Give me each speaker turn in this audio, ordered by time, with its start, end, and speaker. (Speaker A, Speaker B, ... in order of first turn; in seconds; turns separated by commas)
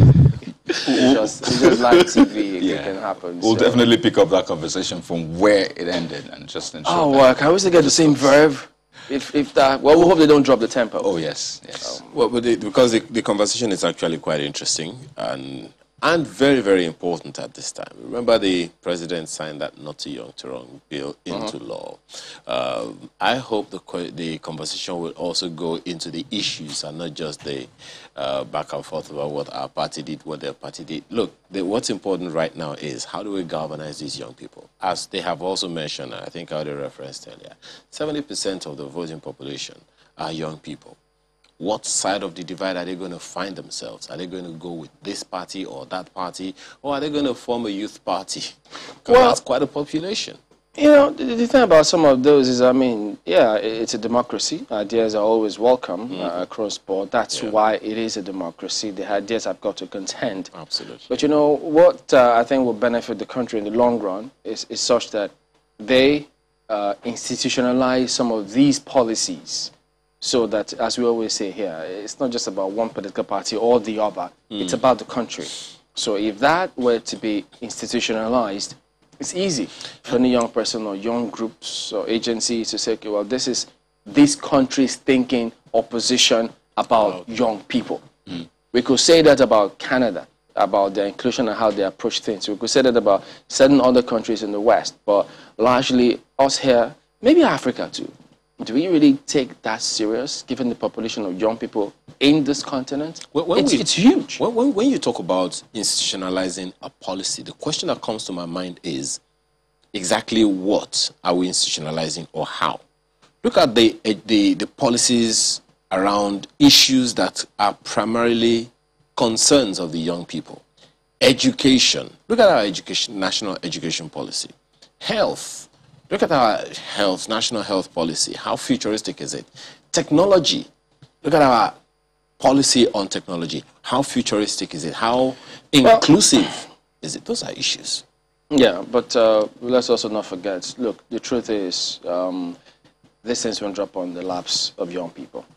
Speaker A: 0.7-8.4, Speaker B: 0.8-3.9, Speaker B: 6.8-11.1, Speaker A: 11.0-12.0, Speaker C: 12.1-41.0, Speaker C: 41.6-50.4, Speaker B: 49.1-49.4, Speaker B: 50.8-60.5, Speaker C: 56.1-56.4, Speaker C: 60.5-61.1, Speaker B: 61.1-88.0, Speaker B: 88.7-104.4, Speaker C: 103.3-109.2, Speaker C: 109.9-112.8, Speaker C: 113.4-120.6, Speaker C: 121.2-130.7, Speaker C: 131.2-131.8, Speaker C: 132.4-138.0, Speaker B: 135.8-136.1, Speaker B: 138.5-142.6, Speaker B: 143.2-145.4